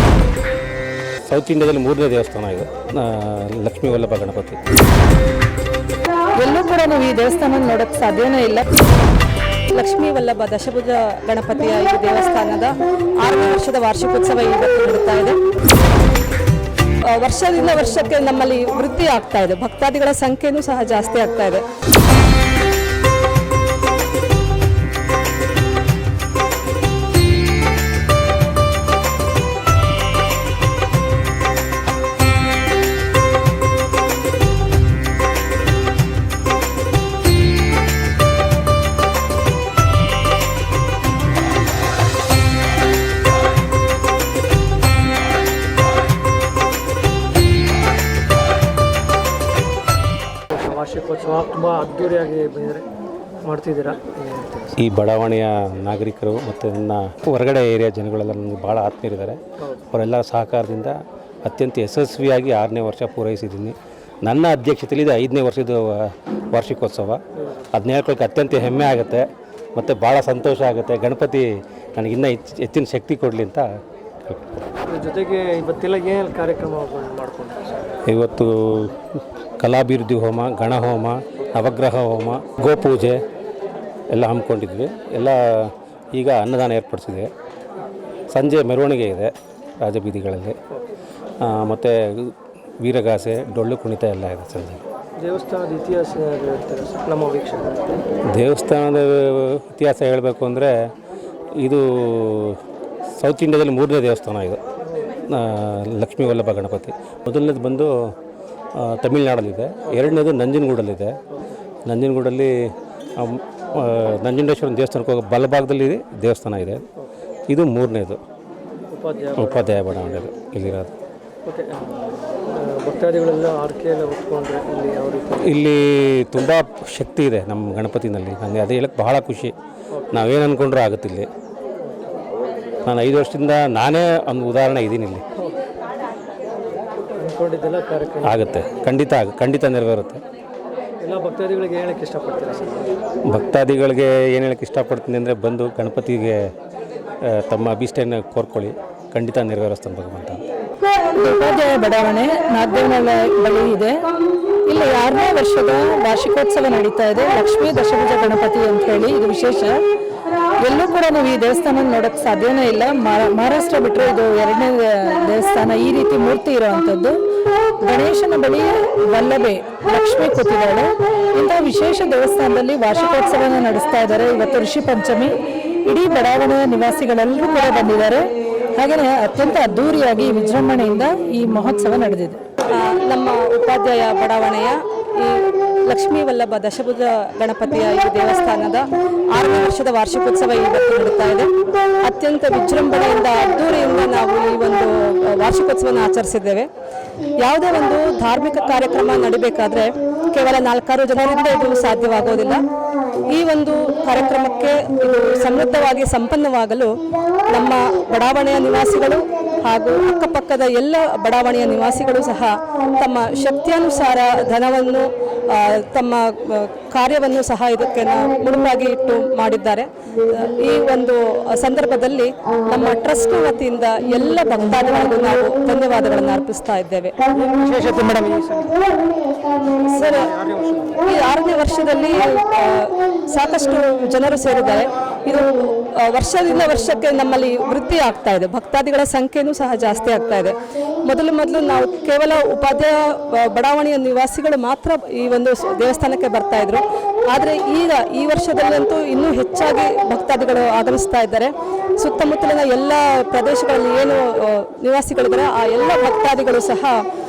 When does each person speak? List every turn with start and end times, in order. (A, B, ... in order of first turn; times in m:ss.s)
0:01.3-0:04.6 A
0:06.4-0:08.6 B
0:09.7-0:15.4 C
0:17.1-0:21.6 C
0:50.5-0:52.9 D
0:53.4-0:54.8 D
0:54.8-1:07.2 A
1:07.4-1:07.7 D
1:07.7-1:13.7 A
1:14.9-1:17.9 D
1:18.1-1:19.0 A
1:19.6-1:23.2 A
1:24.1-1:27.3 A
1:28.3-1:30.6 A
1:31.4-1:34.8 A
1:35.2-1:38.0 D
1:38.3-1:40.7 A
1:41.6-1:42.6 A
1:43.2-1:44.6 A
1:44.8-1:45.1 D
1:45.2-1:47.9 A
1:48.8-1:51.2 A
1:49.9-1:50.2 D
1:51.9-1:52.5 A
1:53.2-1:56.8 A
1:57.5-1:58.2 A
1:58.9-1:59.9 D
1:59.4-2:00.9 A
2:01.4-2:05.6 D
2:05.4-2:09.5 A
2:09.9-2:10.2 D
2:10.1-2:11.3 A
2:11.8-2:12.2 D
2:12.8-2:15.2 A
2:17.1-2:18.5 D
2:18.2-2:20.2 A
2:21.0-2:22.9 D
2:23.3-2:26.4 A
2:27.2-2:30.4 A
2:31.1-2:34.0 B
2:34.7-2:39.8 B
2:40.6-2:47.2 B
2:47.8-2:58.2 B
2:58.8-3:02.4 B
3:02.7-3:11.5 C
3:12.0-3:16.7 C
3:17.4-3:22.6 C
3:23.3-3:26.9 C
3:27.5-3:47.1 C
3:47.3-3:48.8 D
3:49.7-3:51.0 D
3:49.9-3:50.3 C
3:51.0-4:17.0 C